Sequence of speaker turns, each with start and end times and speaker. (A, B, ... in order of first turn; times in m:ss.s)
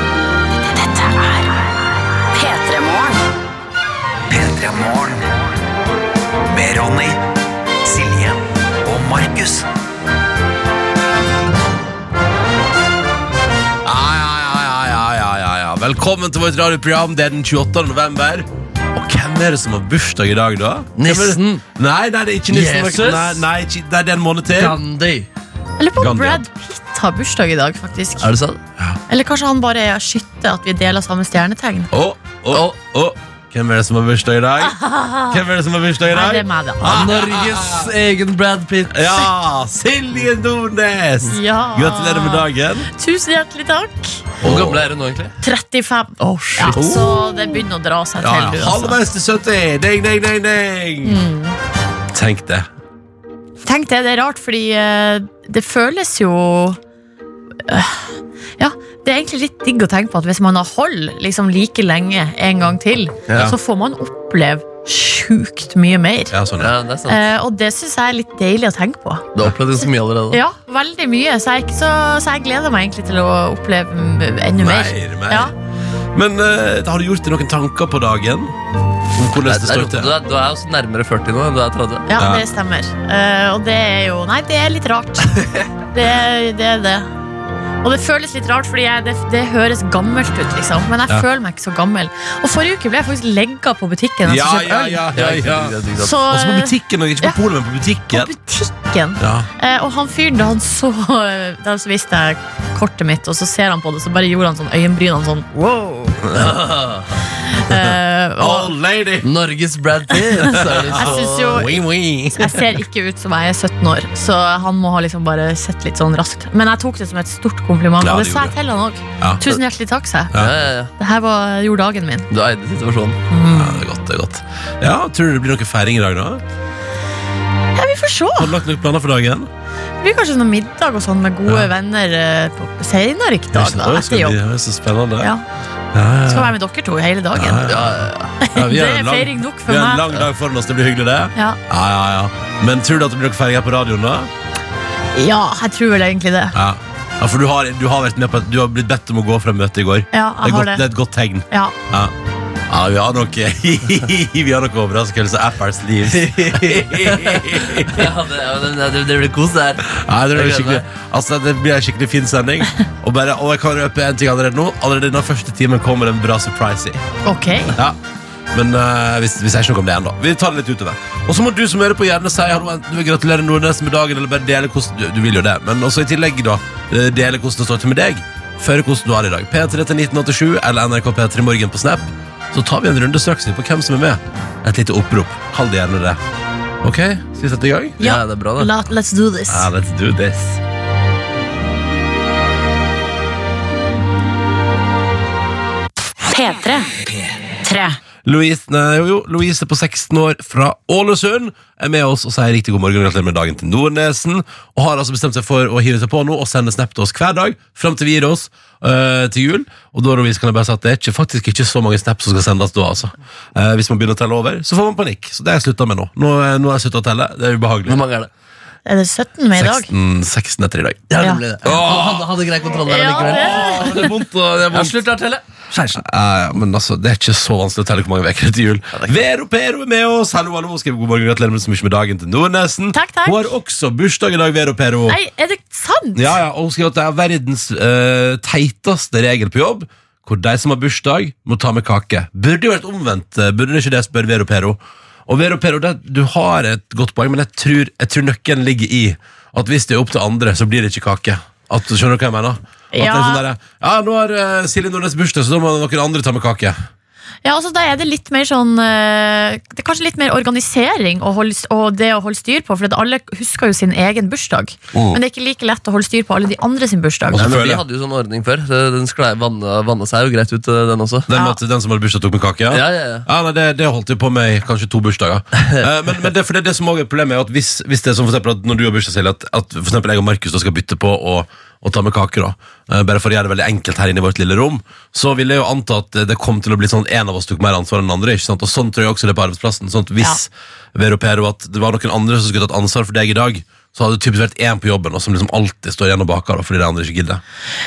0:00.6-0:01.6 A
0:02.3-0:03.2 A
0:04.3-0:05.2 B
0:06.5-0:07.2 B
0:07.9-0:09.6 B
0:13.8-0:24.8 C
0:21.0-0:21.6 D
0:22.5-0:23.4 D
0:24.6-0:25.3 D
0:25.8-0:28.3 E
0:26.0-0:26.4 C
0:28.2-0:28.6 D
0:29.1-0:31.9 E
0:31.9-0:37.9 C
0:32.5-0:32.8 D
0:34.6-0:35.4 E
0:36.1-0:36.9 E
0:36.8-0:39.1 D
0:38.9-0:42.9 C
0:41.3-0:44.2 E
0:44.4-0:44.8 C
0:44.4-0:45.3 D
0:45.4-0:49.0 E
0:46.2-0:46.9 D
0:46.8-0:47.1 C
0:48.2-0:51.2 C
0:51.0-0:51.6 E
0:52.1-0:52.7 C
0:53.6-0:56.8 E
0:57.7-1:06.4 E
1:06.3-1:06.7 C
1:06.6-1:07.3 D
1:07.1-1:09.3 E
1:09.3-1:10.4 D
1:10.3-1:15.5 E
1:14.6-1:15.5 C
1:16.1-1:18.5 C
1:19.1-1:20.1 C
1:19.4-1:22.1 D
1:22.1-1:27.1 E
1:22.2-1:22.5 C
1:27.8-1:35.0 E
1:34.2-1:38.3 C
1:35.2-1:36.2 D
1:36.0-1:37.4 E
1:38.1-1:46.5 E
1:39.2-1:39.5 C
1:46.3-1:47.0 C
1:47.5-1:48.7 E
1:47.7-1:49.3 C
1:49.2-1:51.7 D
1:50.5-1:52.7 C
1:50.9-1:51.8 E
1:52.4-2:00.3 E
1:58.0-1:58.5 C
1:59.2-1:59.6 C
2:00.3-2:00.6 C
2:00.4-2:00.9 D
2:01.0-2:02.3 E
2:02.3-2:03.2 D
2:03.3-2:03.8 E
2:03.5-2:06.4 C
2:07.8-2:08.6 E
2:08.4-2:09.5 C
2:10.0-2:14.4 E
2:13.5-2:15.3 C
2:15.9-2:16.6 C
2:16.3-2:17.7 E
2:17.4-2:24.3 C
2:17.7-2:18.3 D
2:18.4-2:20.1 E
2:25.2-2:26.6 E
2:26.5-2:32.1 C
2:30.1-2:30.8 E
2:32.7-2:38.1 C
2:36.1-2:40.8 D
2:39.9-2:47.0 C
2:47.2-2:47.8 E
2:47.7-2:48.0 C
2:48.5-3:06.2 C
3:06.8-3:08.0 C
3:08.0-3:08.7 D
3:08.0-3:09.7 E
3:09.5-3:10.6 C
3:16.3-3:16.9 A
3:17.6-3:18.0 A
3:18.2-3:38.0 C
3:37.9-3:38.3 D
3:38.9-3:39.9 E
3:39.6-3:41.1 C
3:41.1-3:43.7 D
3:41.6-3:42.5 C
3:42.9-3:44.0 E
3:43.2-3:45.0 C
3:44.7-3:45.4 D
3:46.0-3:55.2 C
3:52.9-3:53.5 E
3:55.1-3:56.4 E
3:56.2-4:16.8 C
4:12.9-4:13.4 E
4:17.4-4:27.5 E
4:24.9-4:25.2 C
4:27.3-4:27.8 C
4:27.4-4:31.3 D
4:31.3-4:57.4 C
4:31.3-4:31.6 E
4:32.7-4:33.3 D